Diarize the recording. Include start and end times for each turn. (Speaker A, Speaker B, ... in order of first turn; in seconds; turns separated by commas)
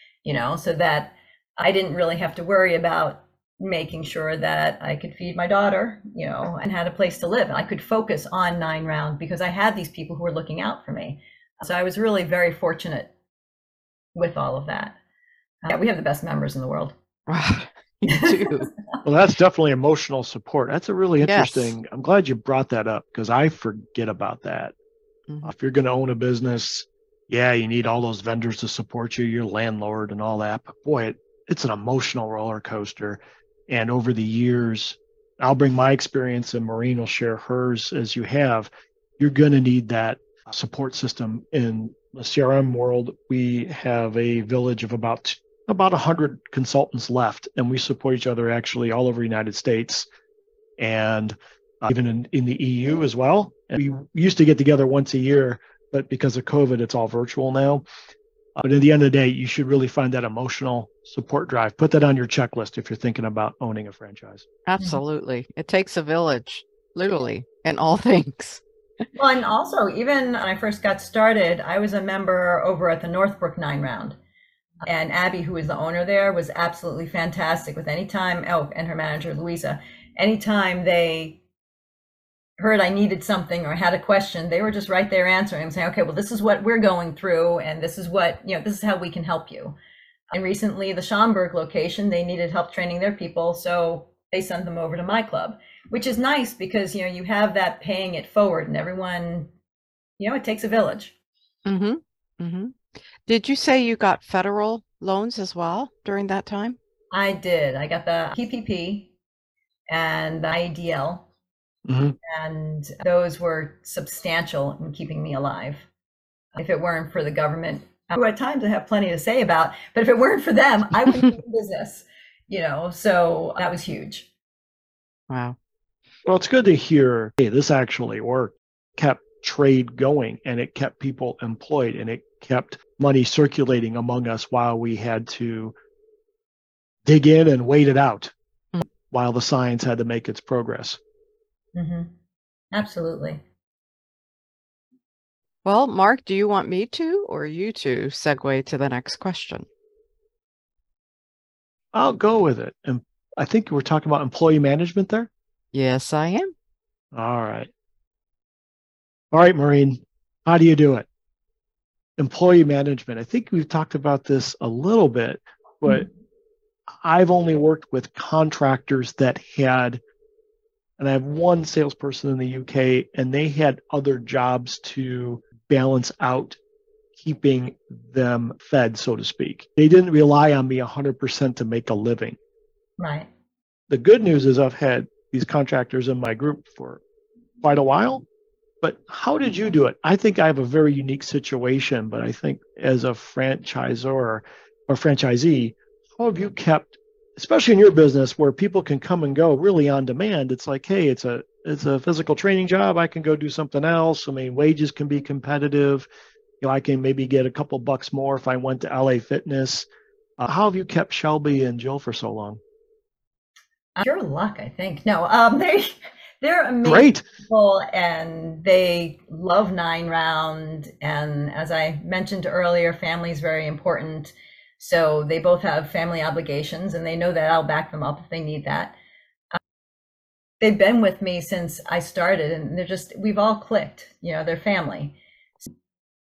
Speaker A: 0.2-13.1, Speaker A: 14.1-15.0, Speaker A: 15.6-16.9, Speaker B: 17.3-18.7, Speaker A: 18.1-18.6, Speaker C: 19.0-24.7, Speaker B: 21.2-21.8, Speaker C: 25.4-50.1, Speaker C: 50.8-57.9, Speaker C: 58.6-64.5, Speaker B: 64.7-68.6, Speaker A: 69.2-74.2, Speaker A: 74.8-81.4, Speaker A: 82.6-89.8, Speaker A: 90.3-99.5, Speaker A: 100.2-101.1, Speaker B: 101.6-106.8, Speaker A: 107.1-109.1, Speaker A: 109.9-111.3, Speaker C: 111.9-112.2, Speaker A: 112.3-115.9, Speaker A: 116.5-124.3, Speaker B: 125.3-125.6, Speaker C: 126.3-135.8, Speaker C: 137.1-138.3, Speaker C: 139.1-141.0, Speaker A: 141.8-142.1, Speaker A: 142.7-143.4, Speaker B: 145.6-149.7, Speaker C: 151.9-155.3, Speaker B: 155.7-156.5, Speaker C: 157.1-157.7, Speaker C: 159.3-161.1, Speaker C: 162.2-166.1, Speaker C: 167.0-170.0, Speaker C: 171.0-176.6, Speaker C: 177.1-182.4, Speaker A: 183.0-183.3, Speaker C: 183.9-187.0, Speaker C: 187.6-188.2, Speaker C: 188.8-206.1, Speaker C: 206.6-209.9, Speaker C: 210.4-212.6, Speaker A: 214.0-228.9, Speaker C: 216.8-217.2, Speaker A: 230.6-235.7